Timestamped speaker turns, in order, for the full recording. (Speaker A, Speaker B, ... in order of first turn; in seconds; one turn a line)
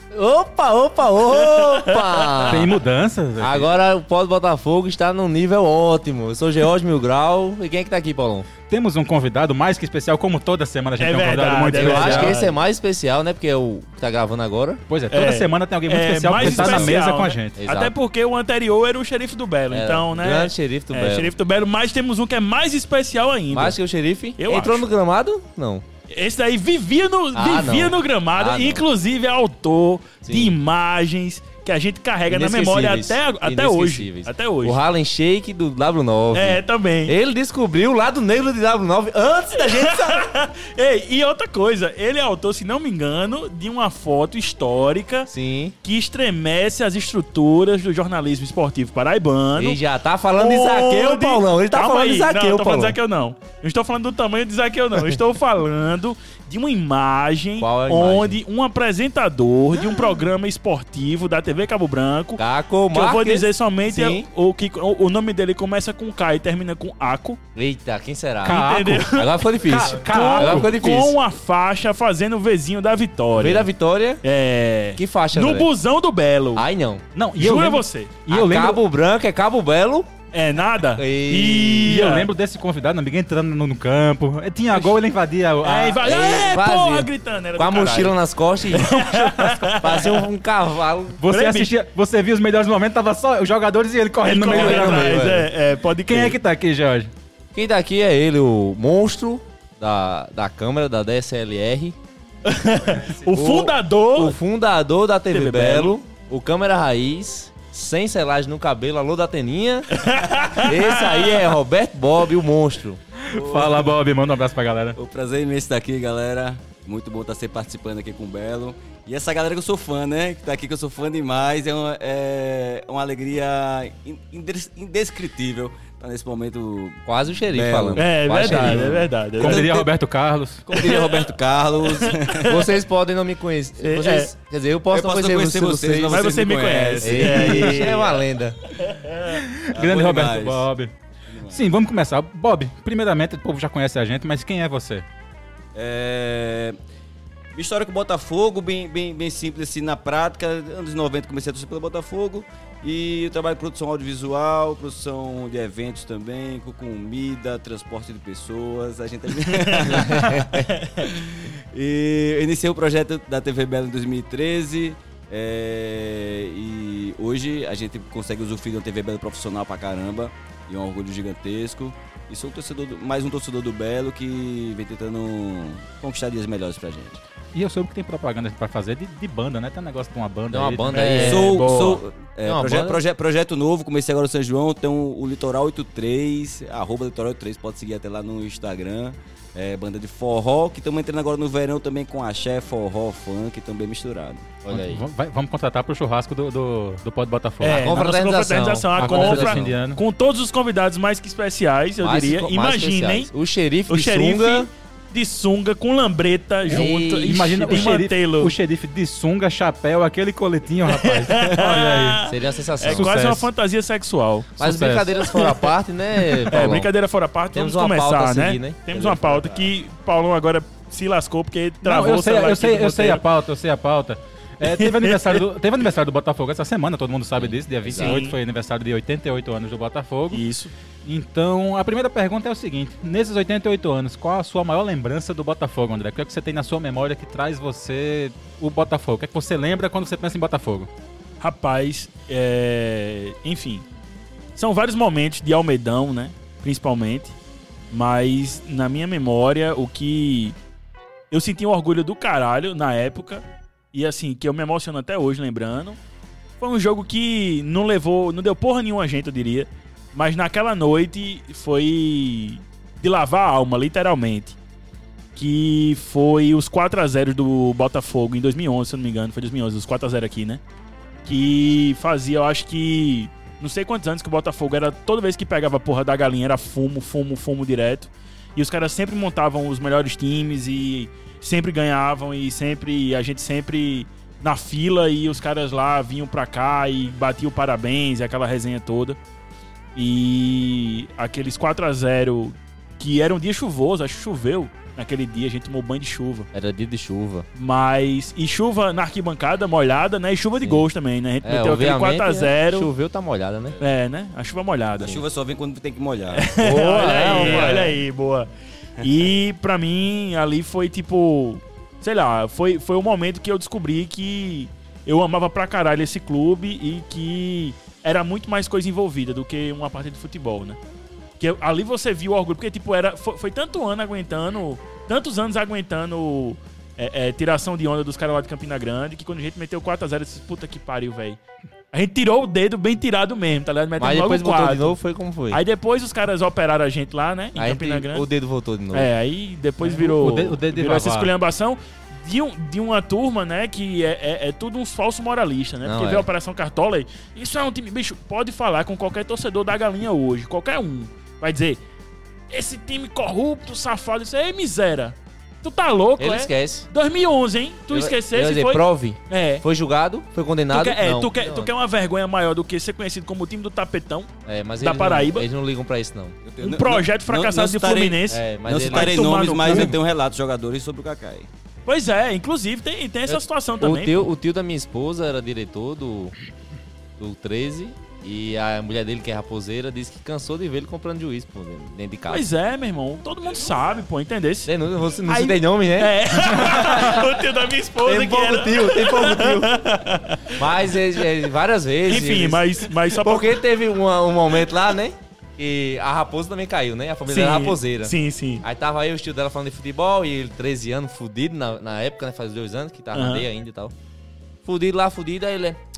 Speaker A: 0.1-2.7
Speaker B: 1.2-2.6
Speaker C: 2.5-3.7
Speaker A: 3.4-8.5
Speaker C: 8.7-12.4
Speaker B: 11.0-12.5
Speaker A: 11.7-14.8
Speaker C: 14.9-17.6
Speaker B: 15.1-23.8
Speaker A: 16.4-17.0
Speaker A: 17.6-17.9
Speaker A: 19.7-21.3
Speaker A: 23.5-25.8
Speaker B: 24.4-24.9
Speaker B: 26.1-34.8
Speaker A: 27.3-28.8
Speaker A: 30.2-30.5
Speaker A: 32.3-40.3
Speaker B: 36.3-37.1
Speaker B: 39.5-45.3
Speaker A: 45.3-45.7
Speaker B: 45.8-49.8
Speaker A: 49.5-53.0
Speaker B: 50.3-62.4
Speaker A: 57.6-58.4
Speaker A: 62.4-64.2
Speaker B: 62.9-67.4
Speaker A: 67.5-71.2
Speaker C: 68.4-70.8
Speaker B: 68.4-73.7
Speaker A: 73.4-74.2
Speaker B: 74.2-76.6
Speaker A: 75.0-75.7
Speaker A: 76.5-77.0
Speaker C: 77.1-78.8
Speaker B: 77.4-78.2
Speaker A: 78.3-80.1
Speaker B: 80.3-82.3
Speaker A: 81.0-81.9
Speaker C: 81.8-86.2
Speaker B: 85.6-90.3
Speaker A: 86.0-89.0
Speaker C: 89.0-89.7
Speaker A: 89.8-91.2
Speaker C: 91.2-95.4
Speaker B: 91.3-91.8
Speaker B: 94.2-96.4
Speaker A: 94.5-95.5
Speaker C: 96.0-97.1
Speaker A: 97.5-102.0
Speaker B: 102.4-104.4
Speaker A: 103.3-113.0
Speaker B: 105.3-106.0
Speaker B: 109.9-111.5
Speaker C: 113.2-115.0
Speaker D: 113.3-113.9
Speaker D: 115.0-129.7
Speaker A: 127.0-129.1
Speaker B: 128.0-129.8
Speaker C: 129.4-130.6
Speaker B: 130.7-131.3
Speaker D: 130.7-132.6
Speaker B: 131.8-132.7
Speaker A: 132.4-136.5
Speaker B: 133.8-134.3
Speaker D: 134.9-138.1
Speaker B: 136.1-138.2
Speaker A: 137.0-138.6
Speaker B: 138.8-139.4
Speaker C: 139.2-140.9
Speaker D: 139.7-140.7
Speaker D: 141.3-141.6
Speaker C: 141.5-145.0
Speaker D: 145.7-146.8
Speaker D: 147.5-177.2
Speaker B: 159.5-161.0
Speaker A: 160.0-160.6
Speaker C: 177.5-181.4
Speaker A: 180.5-181.9
Speaker B: 180.9-182.0
Speaker D: 181.2-194.5
Speaker A: 182.4-183.0
Speaker A: 194.6-195.0
Speaker C: 194.7-197.8
Speaker B: 197.6-203.3
Speaker A: 197.6-199.7
Speaker C: 199.0-200.0
Speaker A: 202.0-204.7
Speaker B: 203.9-208.6
Speaker A: 206.7-208.0
Speaker C: 206.7-212.2
Speaker B: 210.9-214.5
Speaker A: 212.3-213.2
Speaker C: 212.9-213.5
Speaker C: 214.6-215.2
Speaker A: 214.6-216.9
Speaker B: 215.2-223.2
Speaker A: 217.5-219.6
Speaker C: 221.8-230.4
Speaker B: 224.6-225.4
Speaker A: 227.4-228.2
Speaker B: 227.9-228.3
Speaker B: 230.3-230.7
Speaker C: 231.0-240.9
Speaker B: 241.4-243.8
Speaker B: 244.6-247.3
Speaker B: 247.9-250.5
Speaker B: 251.3-256.0
Speaker B: 256.6-264.6
Speaker B: 265.4-270.6
Speaker B: 271.2-289.2
Speaker B: 289.9-296.5
Speaker A: 296.5-297.4
Speaker B: 297.6-302.9
Speaker A: 301.4-303.8
Speaker B: 303.8-305.2
Speaker D: 305.0-306.5
Speaker B: 306.3-308.5
Speaker A: 306.6-307.9
Speaker B: 309.0-320.8
Speaker B: 321.4-331.4
Speaker B: 331.9-335.0
Speaker A: 334.0-335.6
Speaker B: 335.5-338.2
Speaker A: 337.6-339.1
Speaker B: 338.9-351.8
Speaker C: 339.8-341.3
Speaker A: 345.8-346.3
Speaker B: 352.5-359.6
Speaker A: 356.2-356.9
Speaker A: 357.9-361.7
Speaker B: 360.7-365.5
Speaker A: 364.4-366.3
Speaker D: 366.4-371.5
Speaker B: 366.6-370.0
Speaker A: 368.3-369.9
Speaker B: 371.9-374.3
Speaker A: 373.3-376.3
Speaker A: 377.2-382.4
Speaker B: 382.3-384.7
Speaker A: 384.6-387.3
Speaker B: 385.3-391.0
Speaker A: 388.0-389.8
Speaker A: 390.5-403.9
Speaker B: 392.1-393.7
Speaker B: 397.3-398.6
Speaker B: 403.1-403.4
Speaker A: 404.6-405.8